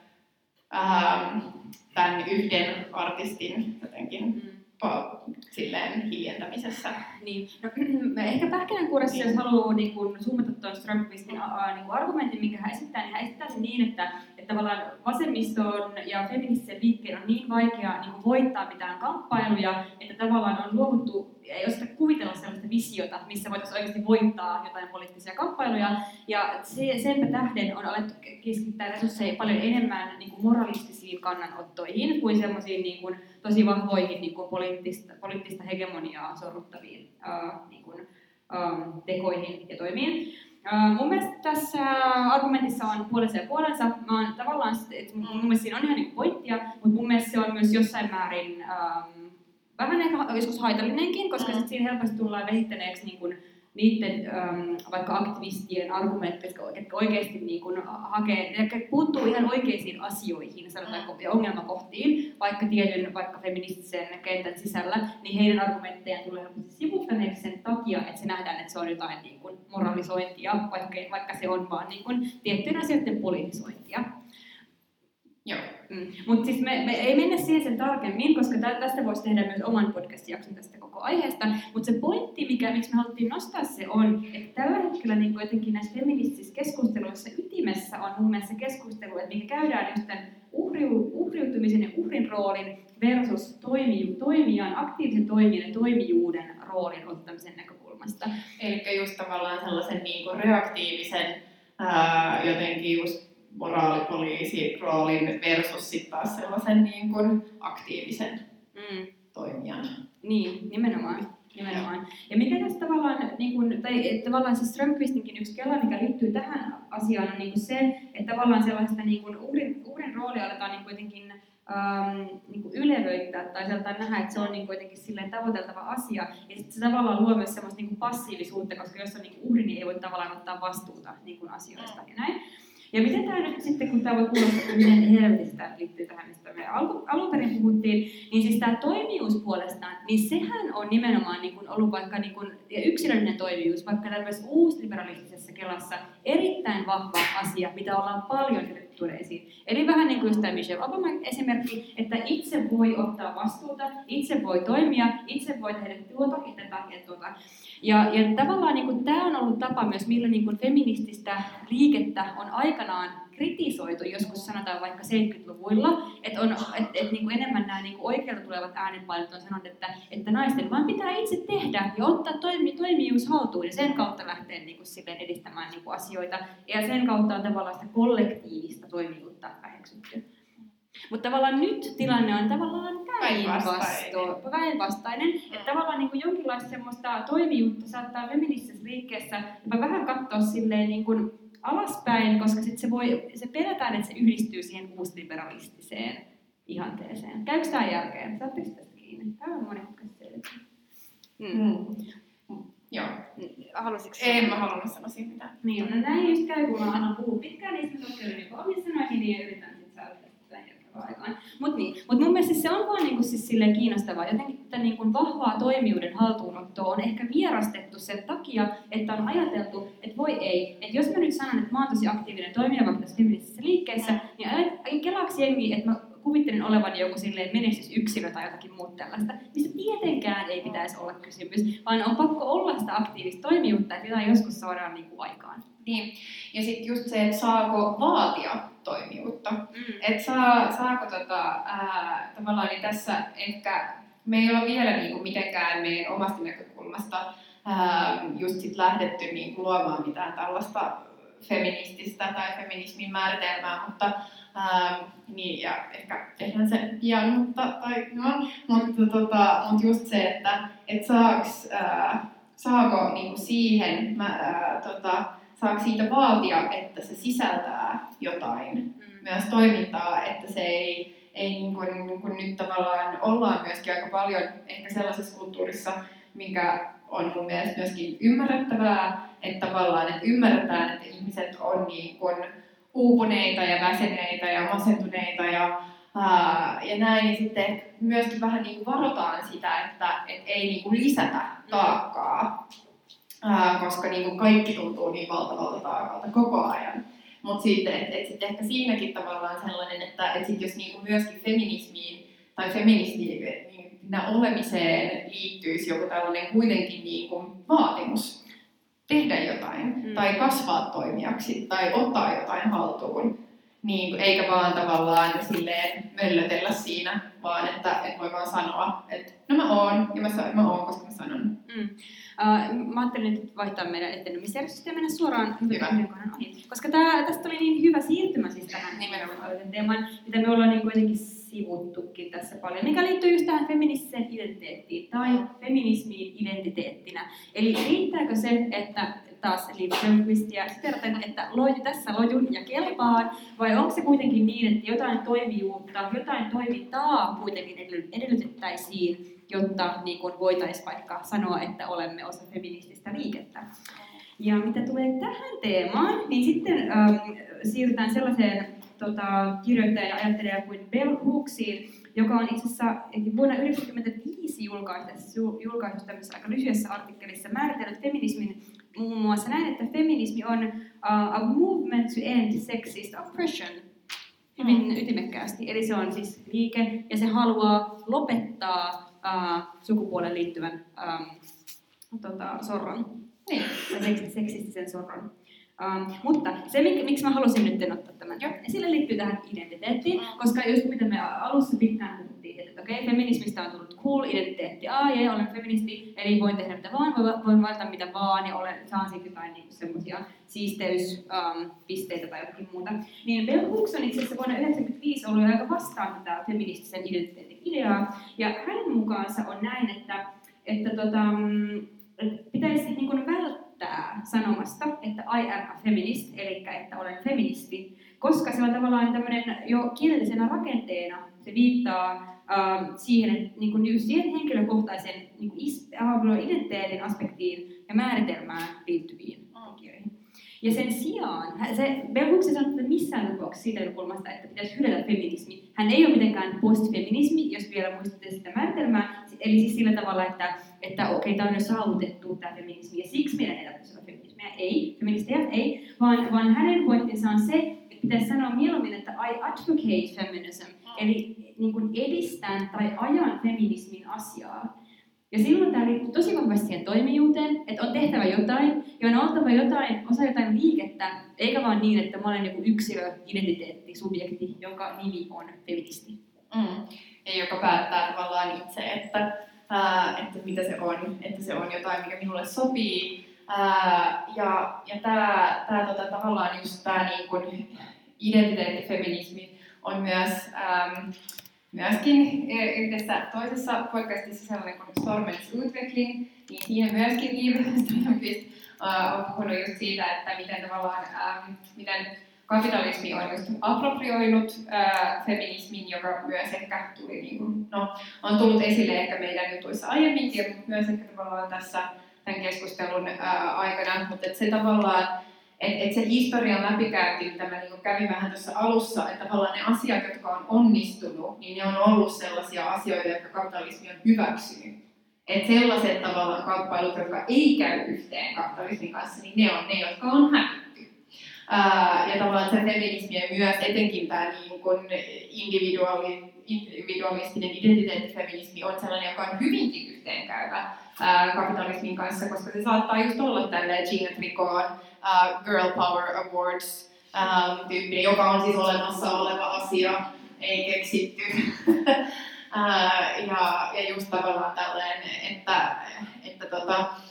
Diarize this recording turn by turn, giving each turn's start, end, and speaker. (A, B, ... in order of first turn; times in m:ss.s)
0:00.7-0:07.0 A
0:04.3-0:04.6 B
0:07.0-1:14.1 B
0:09.1-0:09.4 A
0:51.4-0:51.6 A
1:15.4-1:15.7 A
1:15.9-1:38.3 B
1:38.6-1:48.4 A
1:48.7-1:49.1 B
1:49.3-1:49.9 A
1:50.2-2:12.4 B
2:12.9-3:00.2 B
2:30.2-2:30.4 A
3:01.1-3:20.6 B
3:03.2-3:04.3 A
3:21.4-3:21.7 B
3:21.5-3:23.3 A
3:23.4-3:24.7 B
3:24.1-3:26.0 A
3:25.6-3:55.6 B
3:44.0-3:44.3 A
3:55.8-4:52.6 A
3:59.7-4:00.0 B
4:29.0-4:29.3 B
4:51.7-4:52.0 B
4:53.4-5:08.4 A
5:09.1-5:21.5 A
5:10.0-5:10.3 B
5:21.7-5:53.7 B
5:25.7-5:26.0 A
5:28.8-5:29.5 A
5:54.4-6:13.8 B
6:14.6-6:21.4 B
6:14.6-6:14.8 A
6:22.1-6:23.2 B
6:23.4-6:24.0 A
6:23.9-7:34.7 B
7:35.3-7:46.2 B
7:46.5-8:01.1 A
8:01.7-8:40.9 A
8:41.5-9:06.9 A